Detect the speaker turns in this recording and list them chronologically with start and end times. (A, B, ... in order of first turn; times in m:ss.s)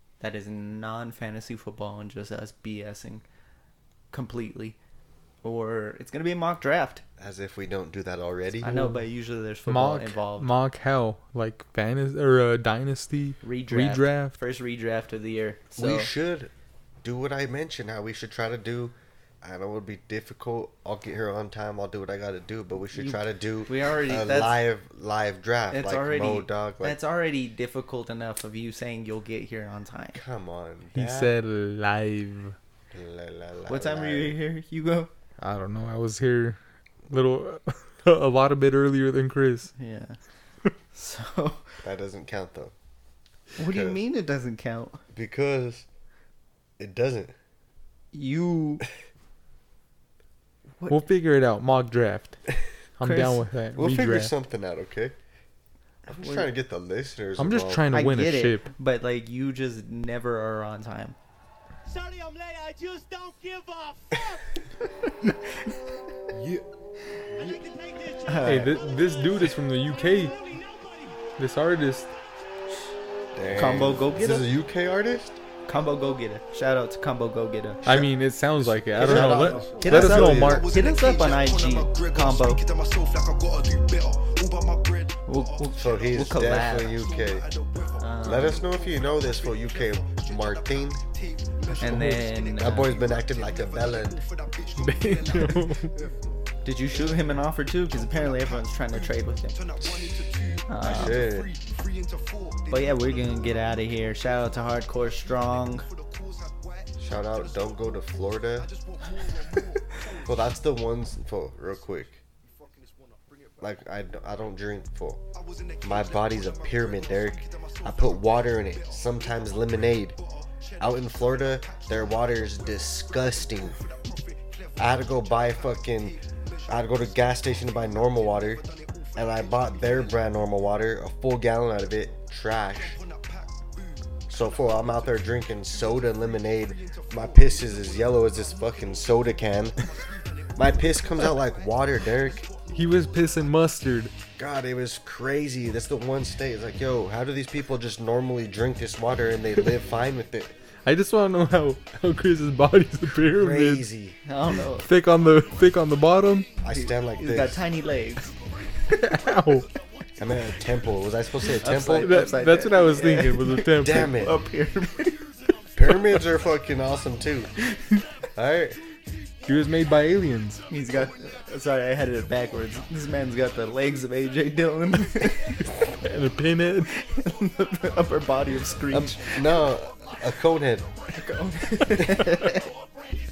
0:00.2-0:03.2 A
0:04.1-0:04.8 A
0:05.4-0:07.0 A
0:07.2-0:08.9 B
0:08.6-0:10.5 A
0:09.7-0:14.4 C
0:13.4-0:16.1 A
0:15.7-0:16.5 B
0:17.0-0:27.0 B
0:22.9-0:24.6 A
0:25.7-0:30.2 A
0:30.1-0:31.4 B
0:30.9-0:32.6 C
0:32.9-0:34.4 B
0:33.7-0:35.1 A
0:35.4-0:36.6 C
0:37.1-0:39.7 C
0:39.8-0:40.2 A
0:40.9-0:41.8 A
0:41.8-0:42.7 B
0:43.6-0:45.0 A
0:43.6-0:44.0 B
0:45.1-0:45.9 B
0:46.8-0:47.3 B
0:48.1-0:48.9 A
0:50.9-0:52.4 C
0:53.0-0:54.3 C
0:53.0-0:53.5 A
0:53.7-0:55.2 B
0:56.1-0:56.5 A
0:56.1-0:57.9 B
0:57.4-0:58.7 C
0:57.9-1:01.2 A
1:01.9-1:04.5 D
1:06.3-1:06.6 E
1:07.4-1:11.3 D
1:08.3-1:08.8 A
1:08.4-1:10.4 C
1:11.4-1:12.1 C
1:13.3-1:15.4 B
1:13.6-1:14.6 A
1:15.7-1:17.8 A
1:17.8-1:20.7 B
1:17.8-1:20.8 C
1:19.0-1:22.6 A
1:20.4-1:54.0 E
1:25.2-1:27.0 A
1:25.7-1:27.5 B
1:28.0-1:28.7 A
1:28.2-1:31.0 B
1:31.8-1:33.0 A
1:32.5-1:34.2 B
1:34.8-1:35.9 C
1:35.3-1:35.7 A
1:36.6-1:39.6 A
1:40.7-1:41.2 A
1:40.8-1:41.6 B
1:42.7-1:45.9 A
1:47.0-1:48.7 B
1:50.2-1:52.2 B
1:53.6-1:55.2 B
1:55.3-2:10.7 E
1:55.8-2:00.2 B
2:00.8-2:03.8 B
2:04.8-2:13.0 B
2:11.7-2:23.5 E
2:14.3-2:19.8 B
2:20.6-2:22.5 B
2:22.7-2:24.1 C
2:24.4-2:30.5 B
2:30.8-2:33.9 C
2:33.3-2:34.2 B
2:34.2-2:34.9 A
2:34.8-2:36.5 C
2:35.6-2:36.8 E
2:36.6-2:37.7 B
2:36.7-2:38.3 A
2:38.2-2:40.9 E
2:38.9-2:39.7 C
2:40.2-2:42.2 B
2:41.4-2:45.2 A
2:41.7-2:44.2 C
2:43.8-2:44.5 B
2:44.8-2:47.7 E
2:45.7-2:47.6 B
2:47.6-2:48.0 A
2:48.4-2:48.8 B
2:49.0-2:50.1 E
2:49.4-2:50.7 C
2:50.7-2:55.5 E
2:50.7-2:55.8 A
2:55.8-2:56.9 C
2:56.9-2:59.6 A
2:56.9-2:58.2 E
2:58.9-3:00.9 B
2:59.0-3:00.1 E
3:01.1-3:02.7 A